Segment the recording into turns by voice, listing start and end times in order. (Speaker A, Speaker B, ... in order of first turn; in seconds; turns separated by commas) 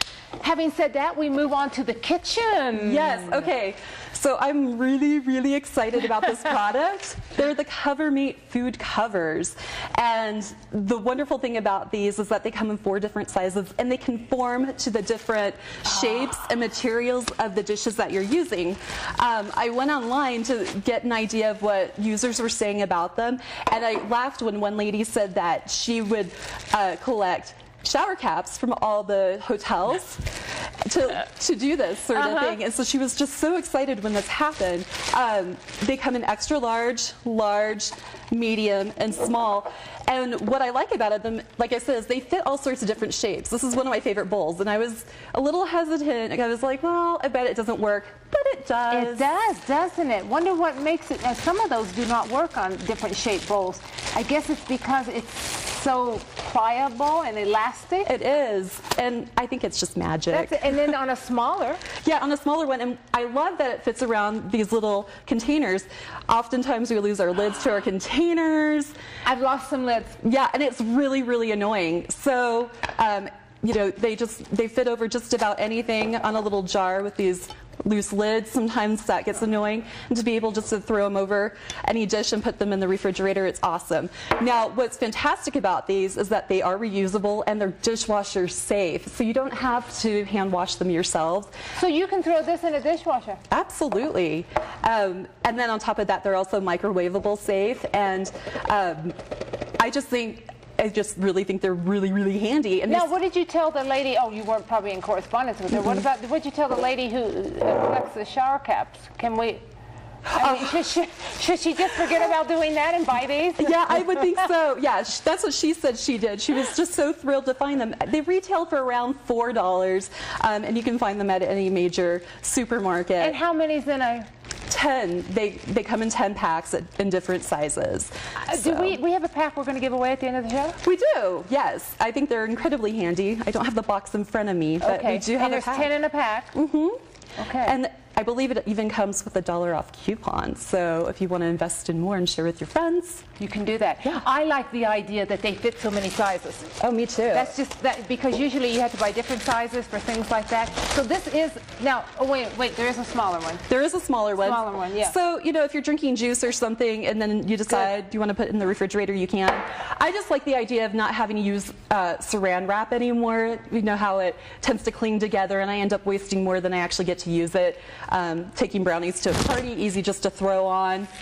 Speaker A: 0.4-3.4, Speaker B: 2.8-30.2, Speaker B: 30.8-49.3, Speaker A: 32.1-32.5, Speaker A: 48.9-58.1, Speaker B: 58.0-60.7, Speaker A: 60.3-61.8, Speaker B: 62.0-68.9, Speaker A: 69.2-70.2, Speaker B: 70.2-91.5, Speaker A: 91.8-93.4, Speaker B: 93.5-99.1, Speaker B: 99.8-103.1, Speaker A: 102.9-109.6, Speaker B: 110.3-110.7, Speaker A: 110.3-114.3, Speaker B: 113.6-123.4, Speaker A: 123.2-124.3, Speaker B: 124.7-129.0, Speaker A: 128.4-130.8, Speaker B: 130.8-135.9, Speaker A: 134.8-136.5, Speaker B: 136.5-137.0, Speaker A: 137.4-137.7, Speaker B: 137.6-143.2, Speaker A: 143.4-146.7, Speaker B: 146.8-147.5, Speaker A: 147.3-153.7, Speaker B: 153.7-171.1, Speaker A: 154.4-155.1